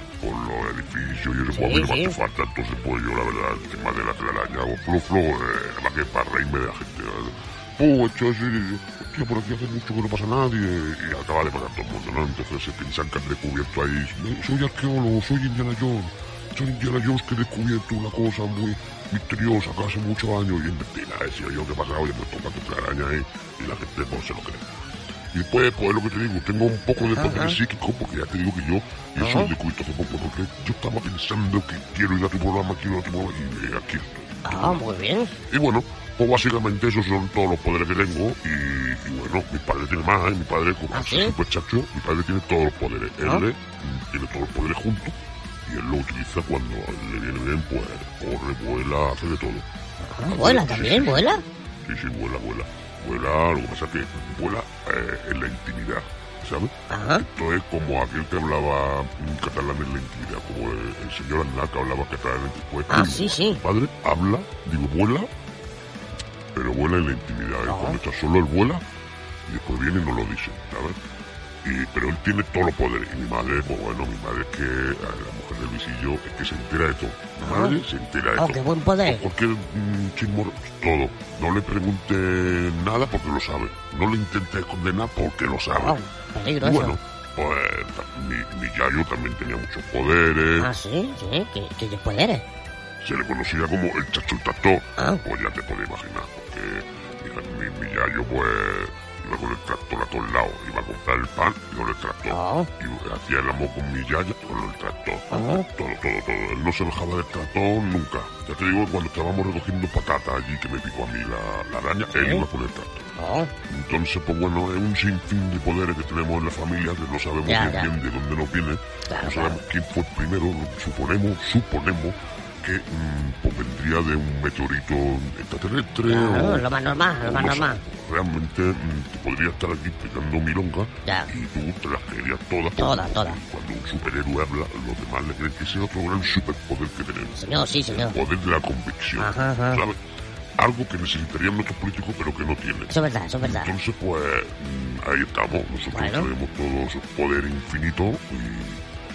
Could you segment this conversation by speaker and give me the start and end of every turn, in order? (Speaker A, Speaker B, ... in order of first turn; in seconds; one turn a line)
Speaker A: 0.2-24.6
Speaker B: 1.5-2.1
Speaker A: 25.3-34.8
Speaker B: 27.2-27.6
Speaker B: 29.2-29.5
Speaker B: 34.4-35.3
Speaker A: 35.5-45.1
Speaker B: 40.9-41.3
Speaker A: 45.7-49.6
Speaker B: 50.1-51.4
Speaker A: 50.3-51.2
Speaker A: 51.9-65.3
Speaker B: 56.9-57.2
Speaker B: 62.9-63.6
Speaker A: 66.5-68.8
Speaker B: 67.7-68.0
Speaker A: 69.5-71.0
Speaker A: 71.6-86.0
Speaker B: 77.4-77.8
Speaker B: 78.4-79.3
Speaker B: 85.7-87.0
Speaker A: 86.6-90.7
Speaker B: 90.6-92.4
Speaker A: 93.0-113.0
Speaker B: 95.0-95.2
Speaker B: 102.3-102.7
Speaker B: 105.3-105.7
Speaker B: 112.2-112.4
Speaker B: 113.2-113.5
Speaker A: 113.7-126.7
Speaker B: 117.5-117.9
Speaker B: 119.1-119.6
Speaker B: 126.1-127.8
Speaker A: 127.2-139.9
Speaker B: 132.8-133.4
Speaker B: 137.3-138.2
Speaker B: 139.2-139.8
Speaker A: 140.6-148.8
Speaker B: 142.9-143.7
Speaker B: 145.9-146.3